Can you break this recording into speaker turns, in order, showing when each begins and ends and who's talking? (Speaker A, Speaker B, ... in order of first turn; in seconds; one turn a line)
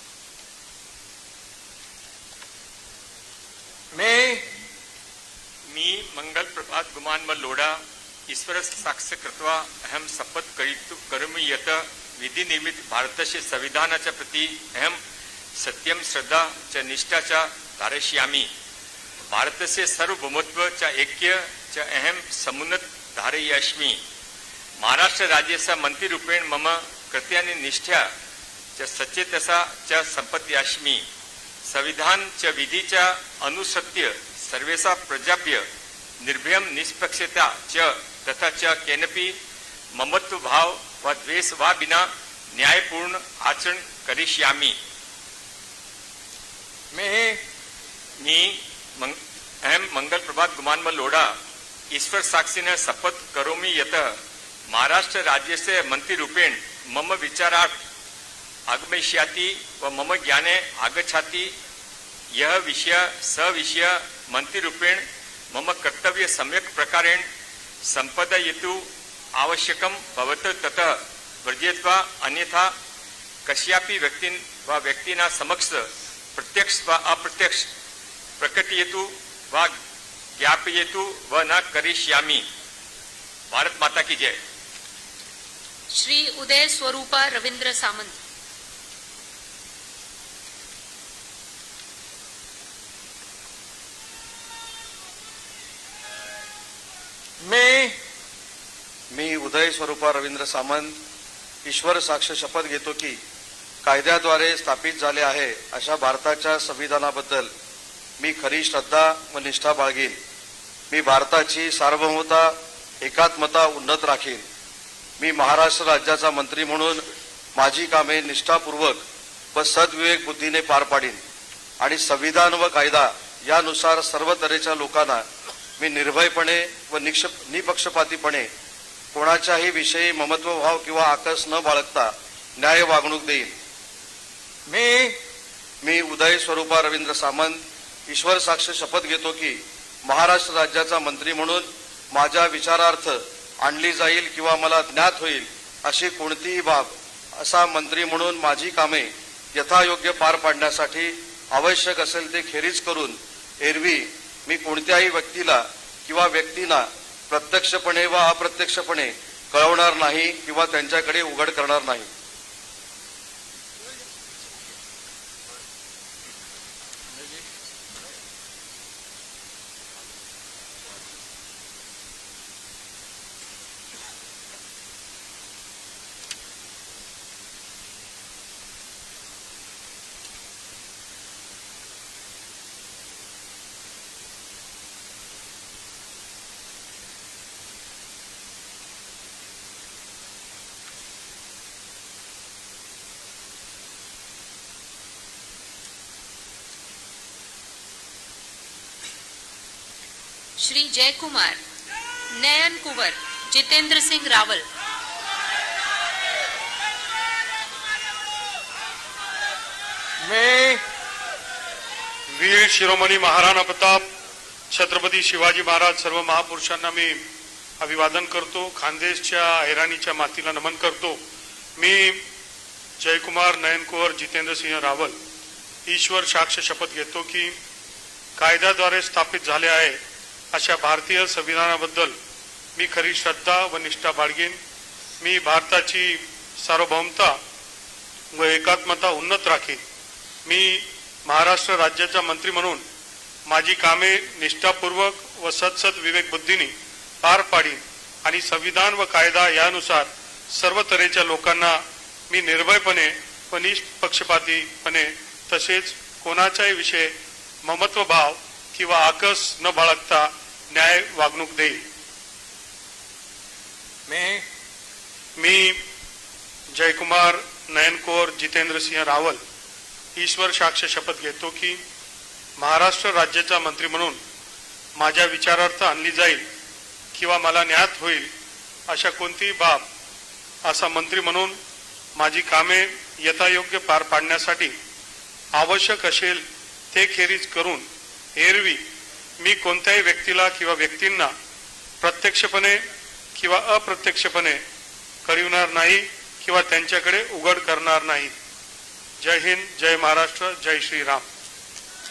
Speaker A: 3.9-4.5
Speaker B: 5.7-15.0
Speaker B: 15.6-18.5
Speaker B: 19.3-24.0
Speaker B: 24.8-28.1
Speaker B: 28.8-31.1
Speaker B: 31.7-35.6
Speaker B: 36.2-39.4
Speaker B: 40.0-44.8
Speaker A: 46.9-47.4
Speaker B: 48.2-51.3
Speaker B: 51.9-54.2
Speaker B: 54.7-57.8
Speaker B: 58.7-61.5
Speaker B: 62.4-67.3
Speaker B: 67.9-72.7
Speaker B: 73.5-77.7
Speaker B: 78.4-79.7
Speaker B: 80.4-82.5
Speaker B: 83.5-84.4
Speaker C: 85.9-88.2
Speaker A: 97.4-98.0
Speaker D: 99.1-101.0
Speaker D: 101.7-103.2
Speaker D: 103.8-107.5
Speaker D: 108.2-110.2
Speaker D: 110.9-114.4
Speaker D: 115.2-117.0
Speaker D: 117.6-119.0
Speaker D: 119.5-121.2
Speaker D: 121.8-125.2
Speaker D: 125.8-128.5
Speaker D: 129.1-133.5
Speaker A: 134.7-135.2
Speaker D: 135.8-162.1
Speaker C: 200.6-201.6
Speaker C: 202.3-204.7
Speaker A: 210.2-210.8
Speaker E: 212.4-214.0
Speaker E: 214.7-217.2
Speaker E: 217.8-221.2
Speaker E: 221.8-222.2
Speaker E: 223.0-225.2
Speaker E: 225.9-227.6
Speaker E: 228.4-230.0
Speaker E: 230.5-232.2
Speaker E: 232.8-234.6
Speaker E: 235.2-237.4
Speaker E: 238.3-239.8
Speaker E: 240.5-242.8
Speaker E: 243.5-251.8
Speaker E: 252.3-261.8
Speaker A: 264.1-264.4
Speaker E: 265.4-265.8
Speaker E: 266.7-269.4
Speaker E: 270.2-271.8
Speaker E: 272.6-274.2
Speaker E: 275.0-276.4
Speaker E: 277.1-278.3
Speaker E: 278.9-279.9
Speaker E: 280.6-281.6
Speaker E: 282.2-284.8
Speaker E: 285.6-287.9
Speaker E: 288.4-288.8
Speaker E: 289.4-291.3
Speaker E: 292.0-292.8
Speaker E: 293.4-294.6
Speaker E: 295.2-298.3
Speaker E: 299.2-301.3